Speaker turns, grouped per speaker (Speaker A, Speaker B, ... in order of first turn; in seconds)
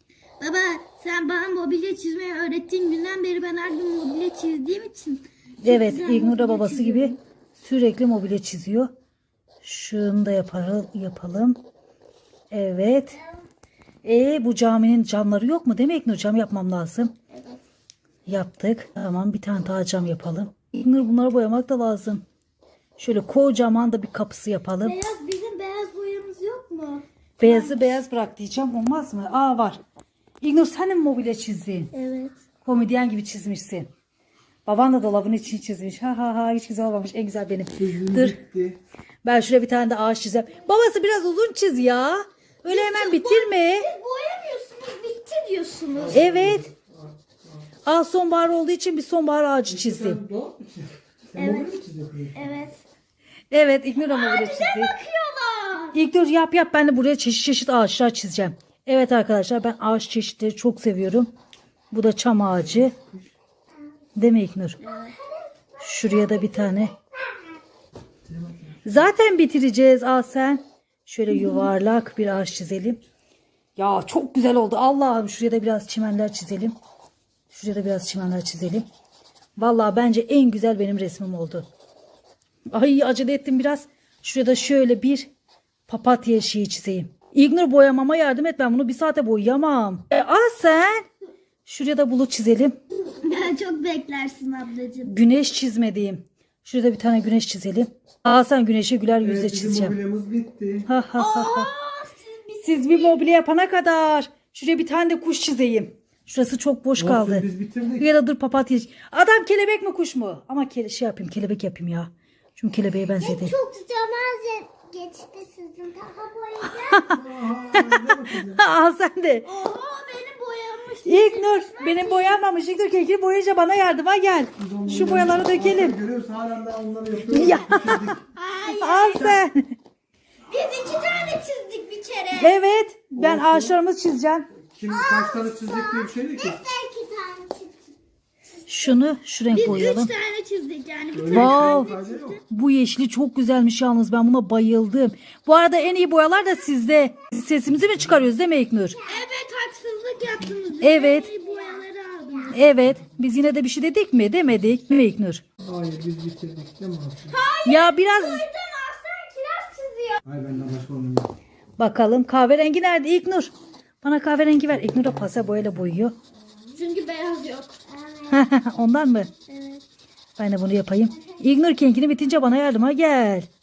Speaker A: 0.4-7.2, 17.3-17.6, 24.8-27.8, 31.9-32.4, 42.7-46.2, 51.4-51.8, 52.3-52.8, 54.0-56.0, 64.8-65.2, 93.2-95.1, 101.2-103.2, 119.4-122.4, 128.3-129.4, 130.5-132.6, 139.5-142.4, 149.1-152.6, 157.3-160.2, 166.7-167.8, 169.5-169.8
Speaker B: 5.6-8.9, 9.6-11.6, 12.5-13.2, 14.0-17.1, 18.3-22.2, 23.0-25.0, 27.4-29.8, 30.4-31.9, 32.6-33.9, 34.7-38.4, 39.2-43.9, 46.1-46.7, 47.9-50.2, 53.5-55.0, 55.9-61.3, 61.9-63.0, 64.2-64.8, 65.8-67.0, 68.8-73.0, 73.8-76.8, 77.5-78.9, 79.6-81.7, 82.7-85.3, 85.9-91.1, 91.7-92.8, 95.0-100.0, 100.9-101.7, 102.6-107.5, 108.0-113.6, 116.6-117.2, 117.7-119.5, 121.1-126.0, 127.3-128.2, 128.7-129.7, 132.4-134.5, 138.7-140.1, 141.3-141.9, 142.5-149.0, 150.8-151.3, 152.5-155.4, 157.7-158.4, 161.8-166.2, 168.3-169.3, 170.4-173.5
Speaker C: 37.8-38.8, 46.0-47.7, 49.7-52.5, 62.6-63.3, 68.3-69.0, 99.2-100.9, 107.0-108.1, 117.1-118.6, 124.6-128.2, 133.2-133.8, 134.6-136.6, 141.1-142.4, 155.6-157.4, 160.2-161.4, 164.7-165.8
Speaker D: 65.8-67.3, 113.2-117.1, 134.9-137.9